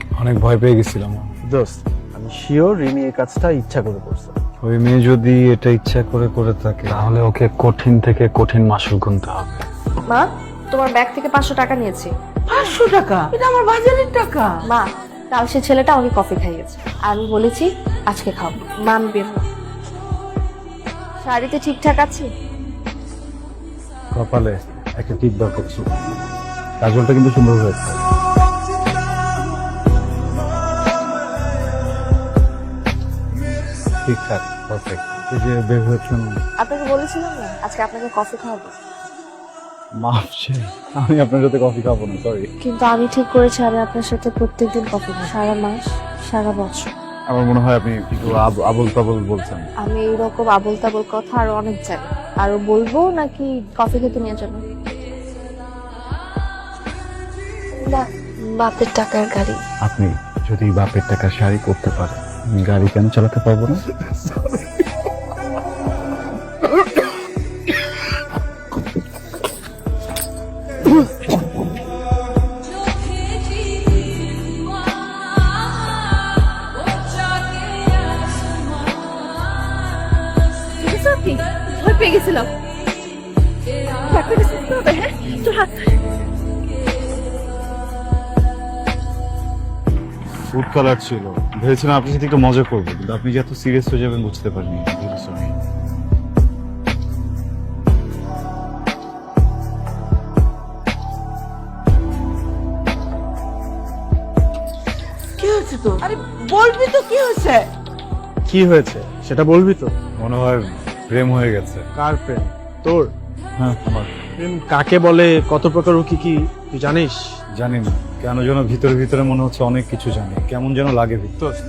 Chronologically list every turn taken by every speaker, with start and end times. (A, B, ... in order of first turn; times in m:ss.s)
0:00.2-0:01.3 A
0:01.5-0:04.3 B
0:04.6-0:09.7 A
0:10.1-0:12.1 C
0:12.5-0:14.5 D
0:14.7-0:19.5 C
0:21.2-0:22.3 C
0:24.1-0:25.9 A
0:26.8-0:28.0 A
0:34.0-0:36.4 A
0:36.6-0:38.7 C
0:40.0-0:42.5 A
0:42.6-0:46.9 C
0:47.3-0:49.7 A
0:49.8-0:54.6 C
0:57.8-0:59.6 C
0:59.8-1:04.6 A
1:20.8-1:22.5 C
1:24.1-1:25.9 C
1:30.5-1:35.5 A
1:45.4-1:47.7 D
1:48.5-1:49.9 B
1:50.2-1:51.9 A
1:52.0-1:53.1 B
1:53.6-1:54.1 A
1:54.4-1:56.3 B
1:56.8-1:57.1 B
1:57.6-2:01.4 A